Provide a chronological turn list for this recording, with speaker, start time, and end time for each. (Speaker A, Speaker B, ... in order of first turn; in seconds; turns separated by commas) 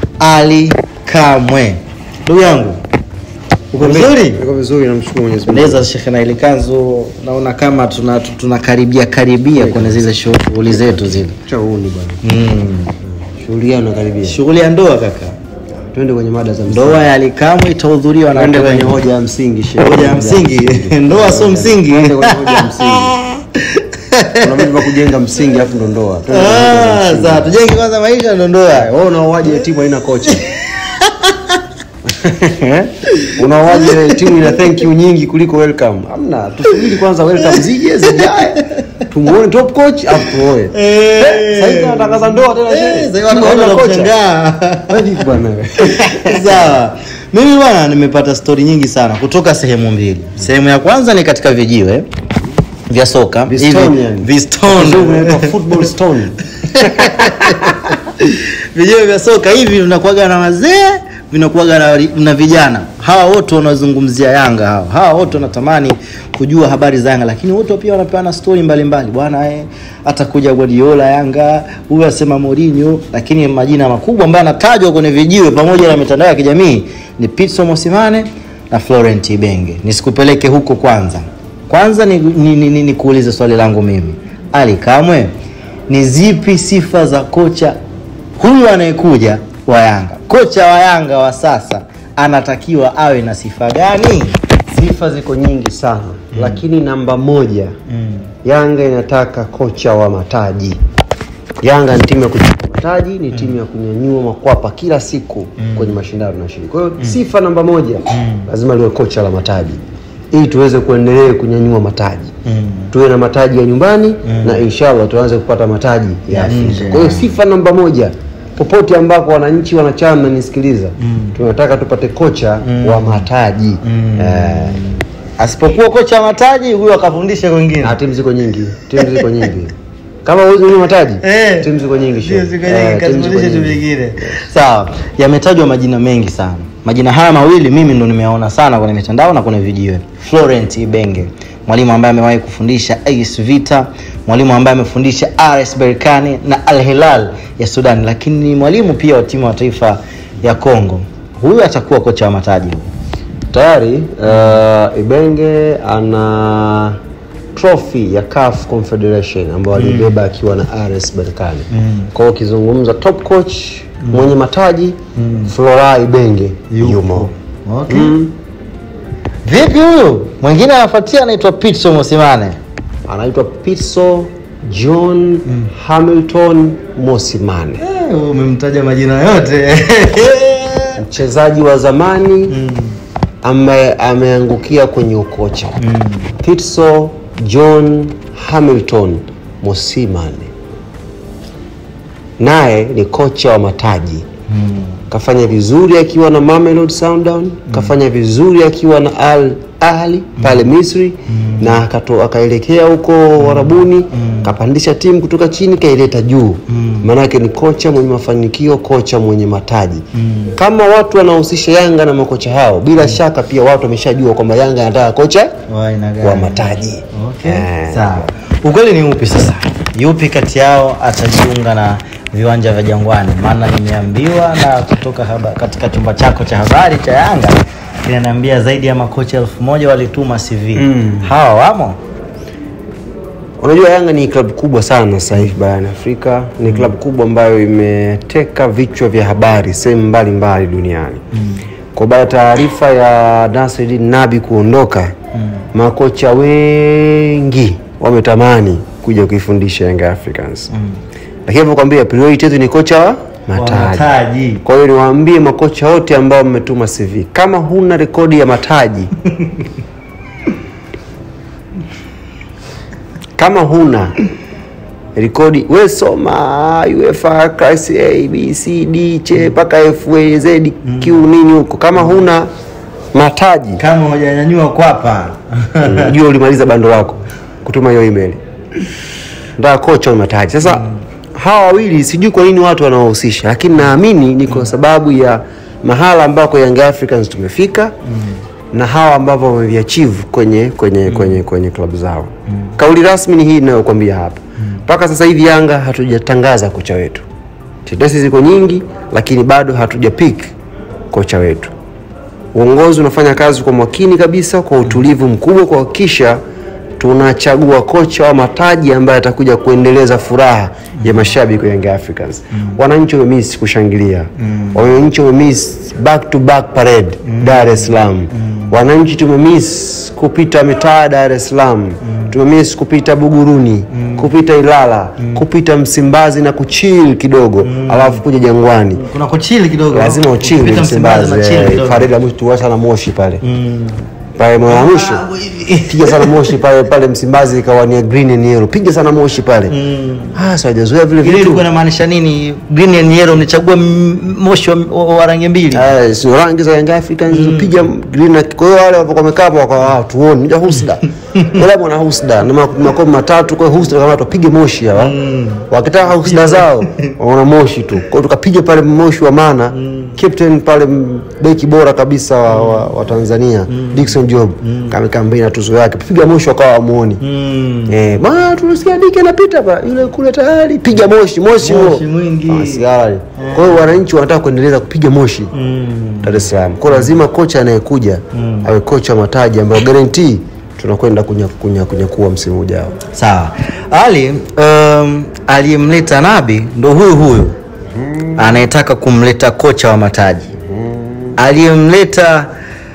Speaker A: 0.2-2.8, Speaker A: 3.7-4.4, Speaker B: 3.8-5.9, Speaker A: 5.5-11.3, Speaker B: 9.6-10.0, Speaker B: 10.8-12.2, Speaker A: 12.2-12.9, Speaker B: 13.3-14.4, Speaker A: 14.2-15.3, Speaker B: 15.9-17.1, Speaker A: 16.7-19.0, Speaker B: 18.3-23.2, Speaker A: 19.8-24.8, Speaker B: 24.4-27.5, Speaker A: 26.3-28.9, Speaker B: 28.7-30.5, Speaker A: 30.3-31.6, Speaker B: 32.1-44.1, Speaker A: 33.1-34.8, Speaker A: 37.5-38.7, Speaker A: 40.7-45.2, Speaker B: 44.9-46.8, Speaker A: 45.8-52.1, Speaker A: 52.9-55.9, Speaker B: 53.5-57.8, Speaker A: 56.6-85.3, Speaker A: 85.9-87.8, Speaker A: 88.4-94.4, Speaker B: 94.7-97.7, Speaker A: 96.3-96.6, Speaker A: 97.9-98.3, Speaker B: 98.4-100.8, Speaker B: 101.6-109.8, Speaker A: 105.6-106.0, Speaker A: 108.1-108.5, Speaker B: 110.3-112.3, Speaker A: 112.5-112.9, Speaker B: 112.9-124.8, Speaker A: 114.2-114.6, Speaker A: 116.3-117.3, Speaker A: 121.0-121.4, Speaker A: 122.6-123.3, Speaker A: 123.8-128.0, Speaker B: 127.8-129.7, Speaker A: 129.0-129.3, Speaker B: 130.2-134.4, Speaker A: 131.2-152.9, Speaker B: 153.5-157.0, Speaker A: 154.3-154.5, Speaker B: 157.6-167.3, Speaker A: 159.8-160.2, Speaker A: 161.7-162.1, Speaker A: 164.0-164.3, Speaker A: 165.2-165.5, Speaker A: 166.7-168.2, Speaker B: 167.9-168.3, Speaker A: 169.4-172.6, Speaker B: 173.1-177.8, Speaker A: 175.5-175.7, Speaker A: 177.8-181.0, Speaker B: 181.0-182.5, Speaker A: 182.5-183.0, Speaker B: 183.4-185.8, Speaker A: 185.8-186.3, Speaker B: 186.4-190.5, Speaker B: 192.4-194.2, Speaker A: 194.5-195.0, Speaker B: 195.1-210.0, Speaker A: 197.7-197.9, Speaker A: 200.4-200.7, Speaker A: 201.3-201.8, Speaker A: 203.4-204.5, Speaker A: 206.7-207.1, Speaker A: 210.1-210.6, Speaker B: 210.6-215.5, Speaker A: 215.7-232.0, Speaker B: 216.2-218.3, Speaker B: 230.8-231.3, Speaker B: 233.6-241.2, Speaker A: 236.7-236.9, Speaker A: 241.3-241.6, Speaker B: 241.9-245.1, Speaker A: 245.4-245.6, Speaker B: 245.7-250.7, Speaker B: 251.5-259.1, Speaker A: 253.5-254.6, Speaker B: 263.4-264.1, Speaker B: 265.1-272.5, Speaker A: 270.9-271.2, Speaker B: 273.1-273.8, Speaker A: 273.8-276.2, Speaker B: 275.8-278.4, Speaker B: 279.6-280.9, Speaker A: 280.6-281.0, Speaker B: 281.4-287.9, Speaker B: 288.7-297.2, Speaker A: 291.1-291.4, Speaker B: 297.9-300.5, Speaker B: 301.1-301.7, Speaker B: 302.5-306.4, Speaker B: 307.0-329.0, Speaker A: 311.0-311.2, Speaker A: 314.4-314.9, Speaker A: 317.2-318.8, Speaker A: 323.9-324.3, Speaker A: 327.6-328.2, Speaker A: 328.9-332.1, Speaker B: 329.9-333.4, Speaker A: 333.4-334.1, Speaker B: 334.4-335.3, Speaker A: 334.7-336.6, Speaker B: 335.8-339.8, Speaker A: 339.7-340.4, Speaker B: 340.3-341.6, Speaker A: 341.2-345.9, Speaker B: 345.7-355.2, Speaker A: 347.3-347.8, Speaker A: 351.4-351.6, Speaker A: 355.0-357.2, Speaker B: 355.7-367.2, Speaker A: 359.7-360.2, Speaker A: 362.5-362.9, Speaker A: 363.7-364.9, Speaker A: 367.2-368.1, Speaker B: 367.9-372.9, Speaker A: 371.6-374.0, Speaker B: 373.5-375.5, Speaker A: 375.5-377.2, Speaker B: 376.2-383.0, Speaker A: 378.3-378.7, Speaker A: 383.1-387.6, Speaker B: 388.0-388.6, Speaker A: 388.4-390.5, Speaker B: 390.8-391.4, Speaker A: 391.4-392.5